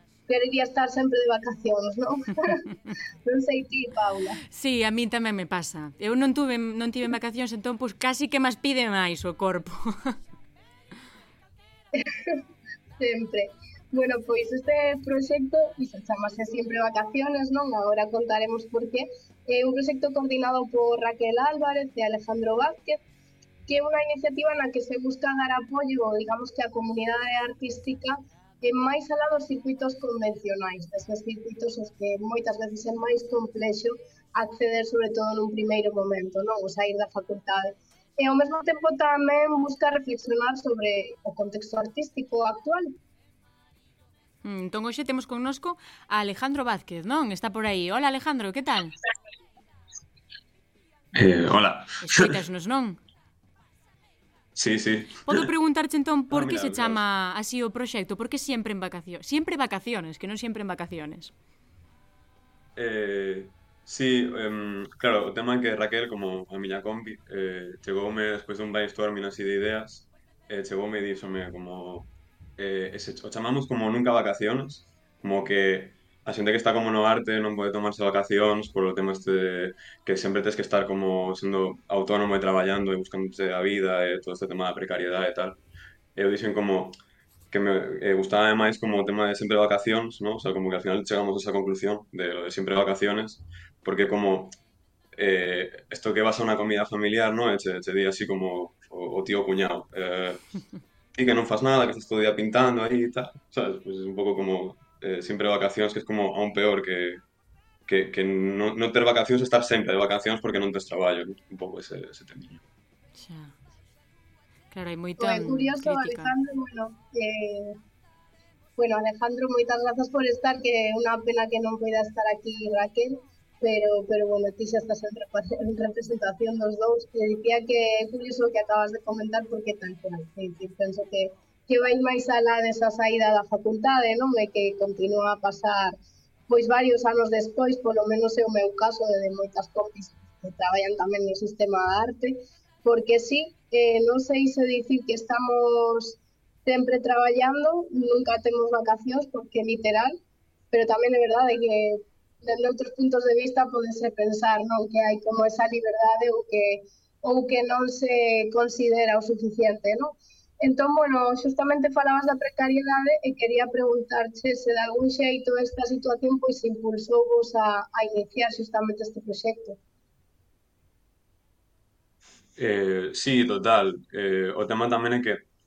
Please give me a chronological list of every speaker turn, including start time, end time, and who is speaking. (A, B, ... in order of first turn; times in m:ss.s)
0:00.3-0:02.6 A
0:03.2-0:04.4 A
0:04.5-0:10.2 B
0:11.9-0:12.4 A
0:13.0-0:23.0 A
0:23.7-0:42.9 A
0:44.4-0:48.9 B
0:51.1-0:52.3 C
0:52.0-0:53.0 B
0:54.6-0:55.5 C
0:55.2-1:01.3 B
0:56.3-0:57.0 C
1:02.8-1:25.6 C
1:26.2-1:27.0 C
1:27.5-1:34.6 C
1:35.1-1:40.5 C
1:41.2-1:47.2 C
1:47.9-1:52.6 C
1:53.1-1:53.5 B
1:54.7-1:56.3 B
1:55.2-1:57.8 A
1:58.8-2:16.0 A
2:16.5-2:30.2 A
2:30.7-2:49.8 A
2:52.6-2:55.4 C